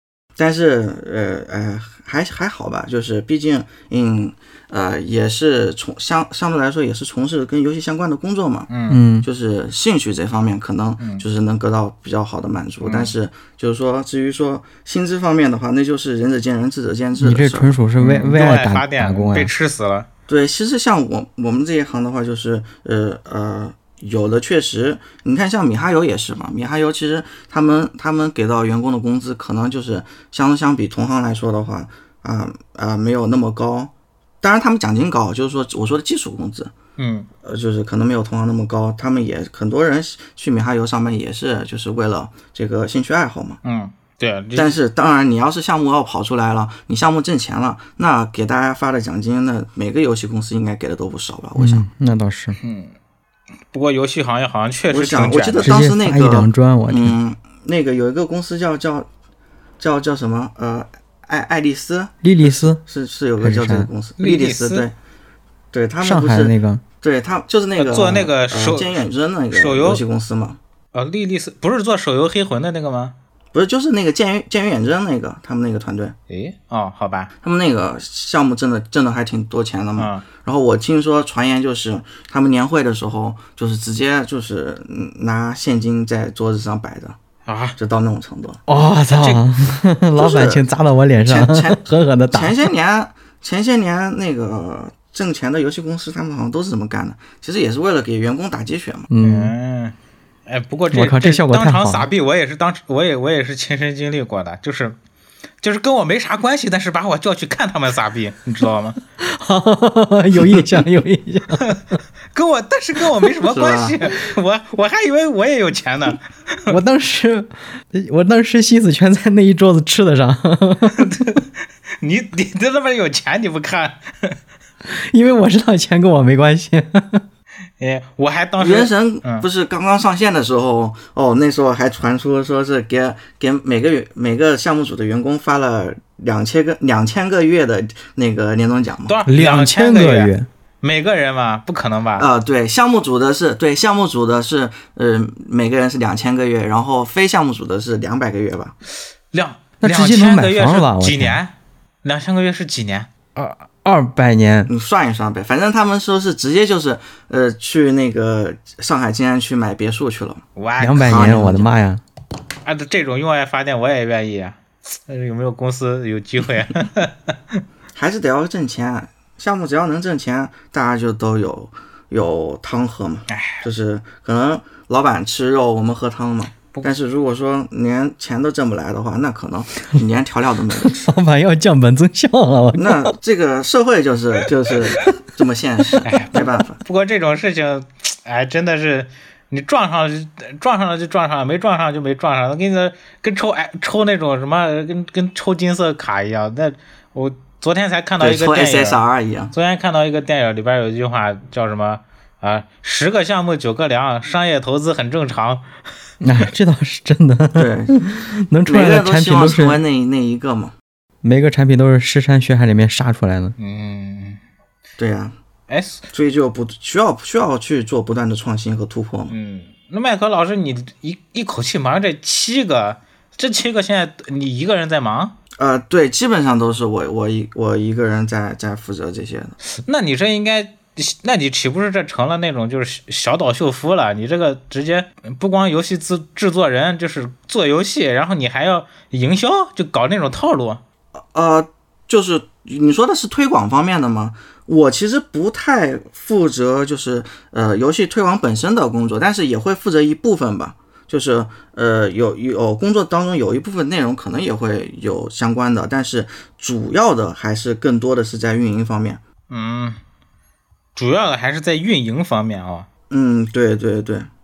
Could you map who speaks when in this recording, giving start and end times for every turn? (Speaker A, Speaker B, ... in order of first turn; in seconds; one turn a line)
Speaker A: 0.4-8.7
Speaker B: 8.7-9.0
Speaker C: 8.9-9.3
Speaker A: 9.2-17.7
Speaker B: 12.8-13.1
Speaker C: 17.2-19.5
Speaker B: 18.0-20.1
Speaker A: 20.3-33.9
Speaker A: 34.4-36.7
Speaker B: 37.0-37.3
Speaker A: 37.4-43.6
Speaker B: 43.6-44.7
Speaker A: 44.5-51.9
Speaker C: 51.6-52.6
Speaker B: 52.6-52.9
Speaker B: 53.7-55.7
Speaker A: 54.9-59.1
Speaker C: 55.6-57.1
Speaker A: 59.8-64.9
Speaker C: 62.2-62.8
Speaker C: 63.4-63.9
Speaker B: 64.2-64.8
Speaker A: 65.7-70.6
Speaker C: 66.0-66.8
Speaker B: 67.8-70.0
Speaker B: 70.9-73.1
Speaker A: 73.5-76.1
Speaker B: 76.3-77.3
Speaker A: 77.4-87.2
Speaker B: 80.0-80.2
Speaker B: 87.5-87.8
Speaker A: 87.8-88.6
Speaker C: 88.7-92.6
Speaker B: 89.2-89.4
Speaker A: 90.2-90.6
Speaker A: 91.2-99.1
Speaker C: 99.1-99.5
Speaker B: 99.2-99.9
Speaker B: 100.5-105.0
Speaker C: 100.9-102.1
Speaker B: 105.6-109.0
Speaker C: 109.2-112.0
Speaker B: 112.3-116.8
Speaker A: 113.5-114.0
Speaker C: 116.7-121.4
Speaker B: 121.0-121.4
Speaker B: 122.0-124.4
Speaker C: 124.8-127.2
Speaker B: 127.8-129.4
Speaker A: 128.6-139.2
Speaker B: 139.1-142.3
Speaker C: 139.2-140.5
Speaker A: 142.2-148.7
Speaker B: 149.3-153.1
Speaker C: 149.8-151.4
Speaker C: 153.3-154.7
Speaker A: 154.7-160.4
Speaker B: 160.6-161.5
Speaker C: 160.8-162.0
Speaker A: 161.0-161.7
Speaker B: 162.6-167.6
Speaker A: 167.9-181.0
Speaker B: 173.3-173.6
Speaker C: 180.8-183.1
Speaker A: 182.8-186.8
Speaker B: 186.0-199.0
Speaker A: 198.2-199.5
Speaker B: 199.5-205.7
Speaker C: 206.2-209.8
Speaker A: 207.6-207.9
Speaker A: 208.7-210.7
Speaker C: 211.2-213.5
Speaker B: 213.6-214.4
Speaker A: 215.0-215.3
Speaker B: 215.7-216.1
Speaker A: 216.1-219.3
Speaker B: 219.3-225.3
Speaker A: 225.6-229.5
Speaker B: 229.8-240.8
Speaker A: 241.3-259.2
Speaker B: 259.5-260.0
Speaker B: 260.9-262.9
Speaker A: 263.1-264.3